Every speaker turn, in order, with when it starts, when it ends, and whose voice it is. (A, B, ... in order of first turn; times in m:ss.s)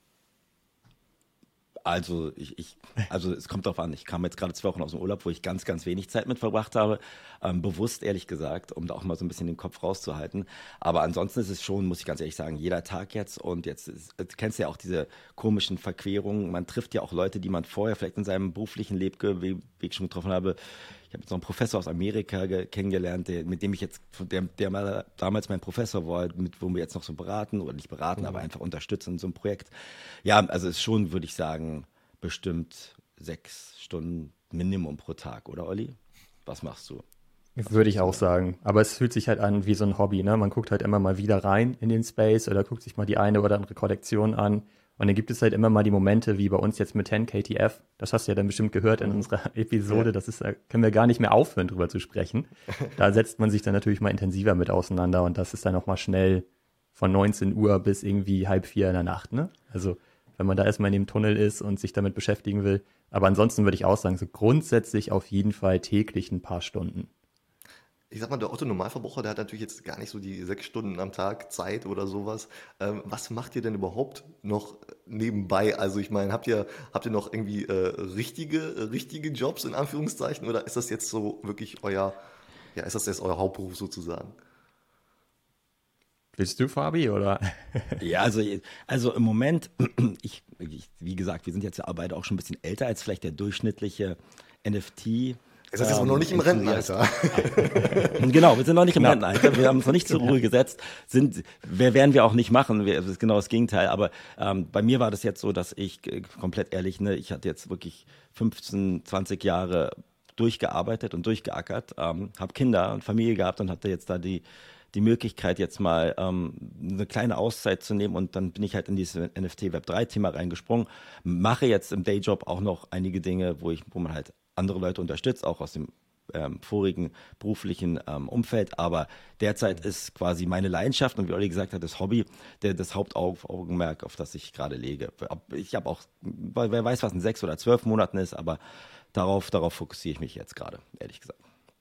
0:01.8-0:20.6 A
0:21.1-0:37.0 A
0:37.6-1:07.1 B
0:37.7-0:38.2 A
0:49.0-0:49.3 C
1:08.1-1:22.2 C
1:22.8-1:24.4 C
1:26.4-1:28.0 B
1:28.0-2:18.6 A
1:35.7-1:38.4 C
1:37.7-1:38.1 B
1:39.0-1:39.2 B
2:19.1-2:21.4 A